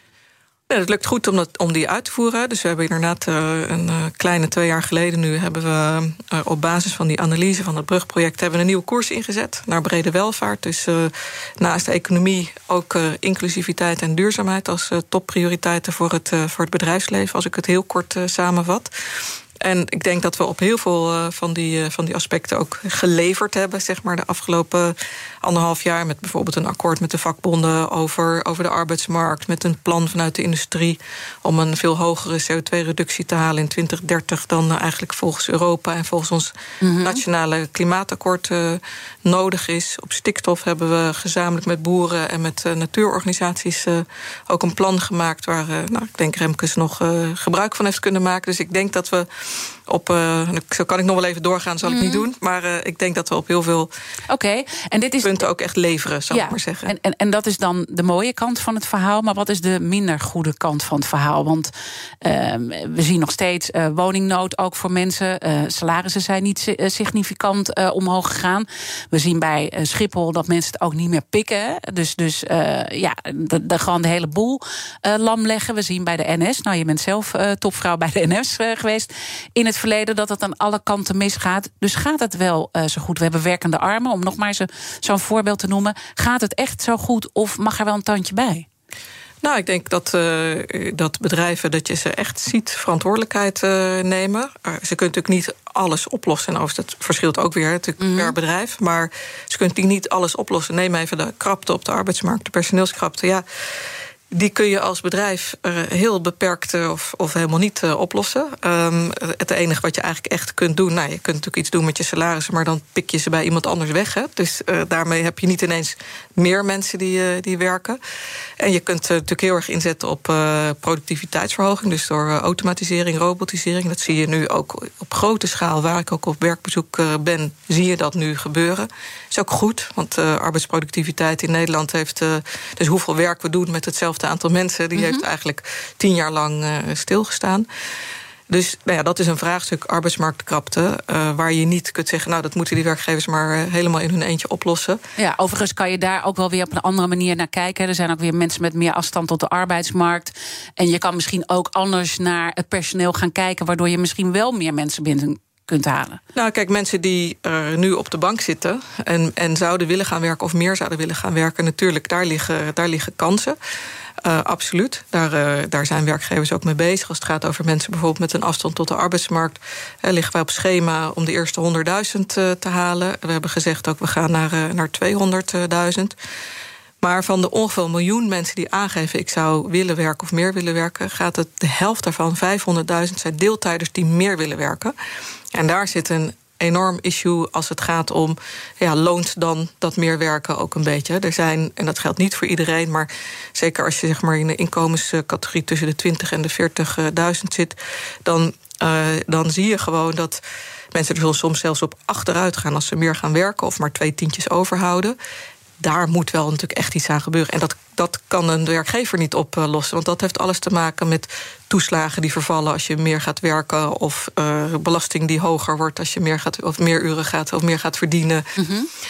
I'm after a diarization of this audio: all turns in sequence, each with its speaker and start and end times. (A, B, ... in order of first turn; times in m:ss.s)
0:00.7-0:18.9 A
0:19.6-0:53.9 A
0:36.8-0:37.2 B
0:51.9-0:52.2 B
0:54.3-0:55.4 B
0:55.2-0:56.9 A
0:56.3-1:01.7 B
1:02.2-1:28.7 B
1:29.4-1:43.4 A
1:38.0-1:38.3 B
1:44.3-1:58.0 A
1:58.6-2:17.7 A
2:15.0-2:15.2 B
2:18.5-2:25.0 A
2:25.2-2:36.2 B
2:36.4-2:43.6 A
2:44.2-2:56.2 A
2:57.0-3:04.9 A
3:05.5-3:20.4 A
3:20.9-3:25.2 A
3:25.8-3:38.5 A
3:38.6-3:38.9 B